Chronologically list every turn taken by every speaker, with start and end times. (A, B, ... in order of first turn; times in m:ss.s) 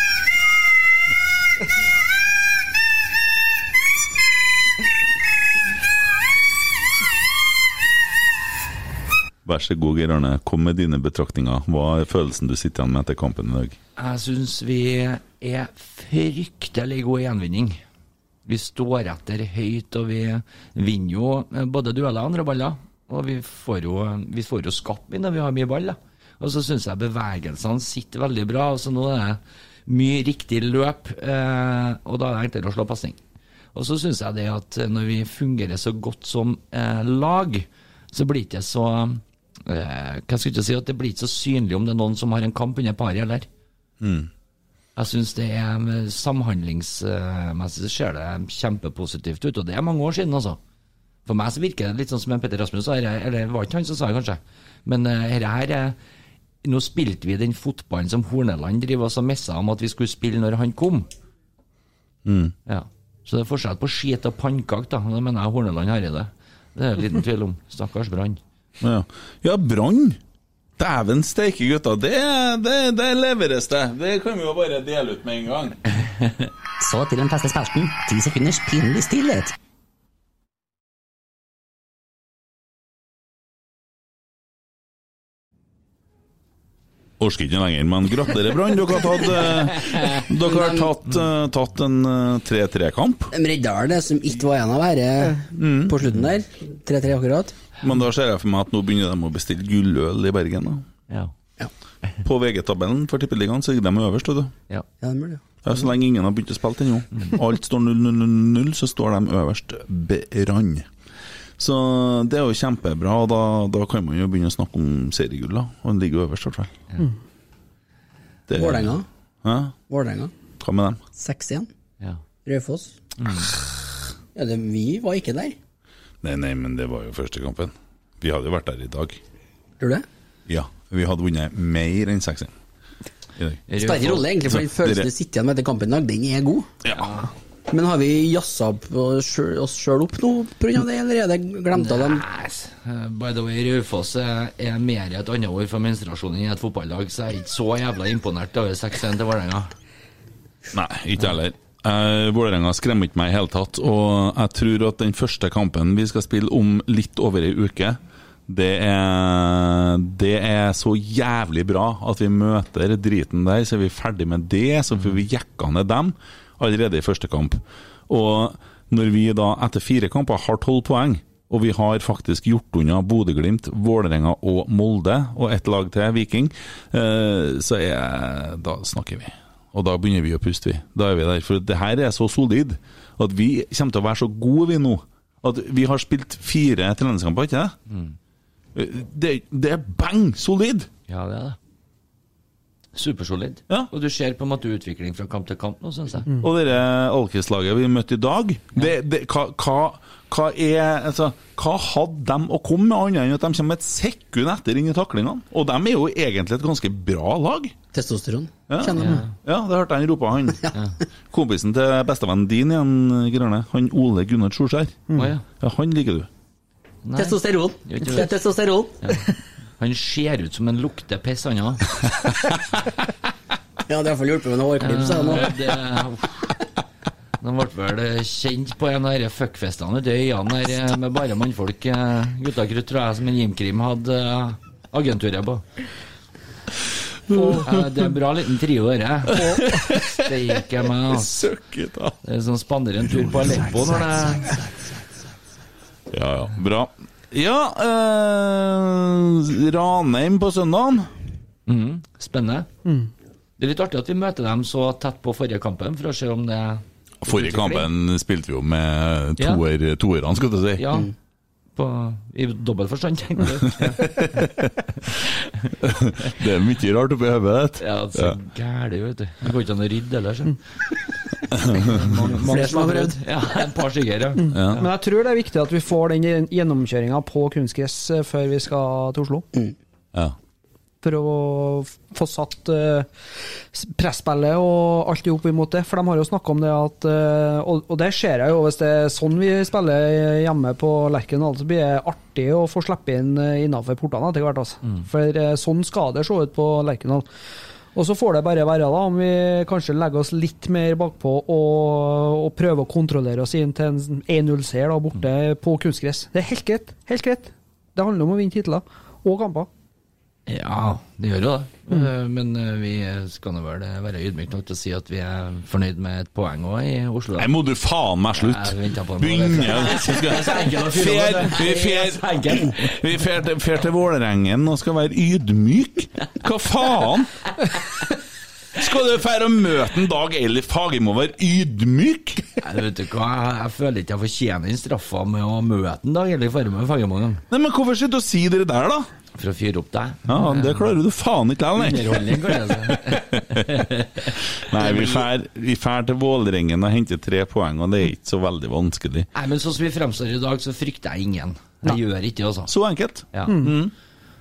0:09.4-0:13.8 A
0:14.0-0:17.8 B
0:18.5-0:33.2 B
0:33.7-0:43.5 B
0:44.0-0:44.3 A
0:45.0-0:50.6 B
0:51.3-0:56.0 B
0:56.6-1:01.1 B
1:02.2-1:02.5 A
1:02.7-1:08.4 B
1:08.8-1:10.2 A
1:10.8-1:15.8 A
1:16.8-1:19.5 C
1:27.2-1:33.3 A
1:30.3-1:30.9 D
1:33.3-1:37.6 D
1:35.6-1:36.0 A
1:37.8-1:40.8 A
1:42.2-1:44.5 A
1:45.0-1:45.4 D
1:45.6-1:50.9 A
1:51.6-1:56.7 A
1:58.5-1:59.8 A
1:58.6-1:59.1 D
1:59.9-2:00.3 D
2:00.6-2:01.0 A
2:01.2-2:01.7 D
2:02.4-2:02.9 D
2:03.2-2:03.5 B
2:04.4-2:05.6 D
2:06.2-2:09.2 A
2:09.8-2:10.0 D
2:10.5-2:12.5 A
2:13.7-2:14.3 B
2:13.8-2:16.7 D
2:14.5-2:15.1 A
2:16.9-2:17.3 B
2:17.7-2:22.2 D
2:21.7-2:29.7 B
2:30.7-3:07.8 A
3:07.9-3:08.2 B
3:08.8-3:10.9 A
3:11.1-3:11.6 B
3:13.0-3:16.3 B
3:16.4-3:27.8 A
3:27.9-3:29.2 D
3:28.7-3:30.8 A
3:29.0-3:29.3 B
3:31.3-3:36.3 A
3:35.1-3:35.4 B
3:37.0-3:38.4 B
3:37.2-3:39.2 D
3:39.0-3:39.3 B
3:39.8-3:41.9 B
3:43.9-3:45.6 D
3:44.8-3:46.4 B
3:47.4-3:55.6 B
3:57.3-3:57.7 A
3:57.3-3:57.7 E
3:57.6-4:01.5 B
3:59.3-4:00.3 A
3:59.4-3:59.7 E
4:01.1-4:02.2 A
4:02.2-4:04.6 B
4:06.1-4:11.1 A
4:11.7-4:12.7 B
4:12.8-4:13.1 E
4:13.6-4:17.9 B
4:17.2-4:20.8 A
4:20.8-4:21.1 B
4:21.8-4:24.3 B
4:24.0-4:24.7 A
4:25.8-4:28.4 A
4:27.8-4:30.6 B
4:31.5-4:31.8 A
4:31.6-4:34.9 B
4:32.2-4:33.2 D
4:34.4-4:39.5 E
4:34.5-4:34.9 A
4:41.0-4:43.1 E
4:43.7-4:57.3 E
4:58.0-5:09.7 E
5:10.5-5:17.5 B
5:17.4-5:27.3 A
5:18.4-5:23.0 B
5:28.8-5:32.5 A
5:32.6-5:37.4 B
5:37.5-5:39.1 A
5:39.4-5:40.9 B
5:40.3-5:43.9 A
5:41.8-5:45.3 B
5:44.6-5:49.3 A
5:49.3-5:52.7 B
5:52.7-5:53.9 A
5:53.5-5:53.7 E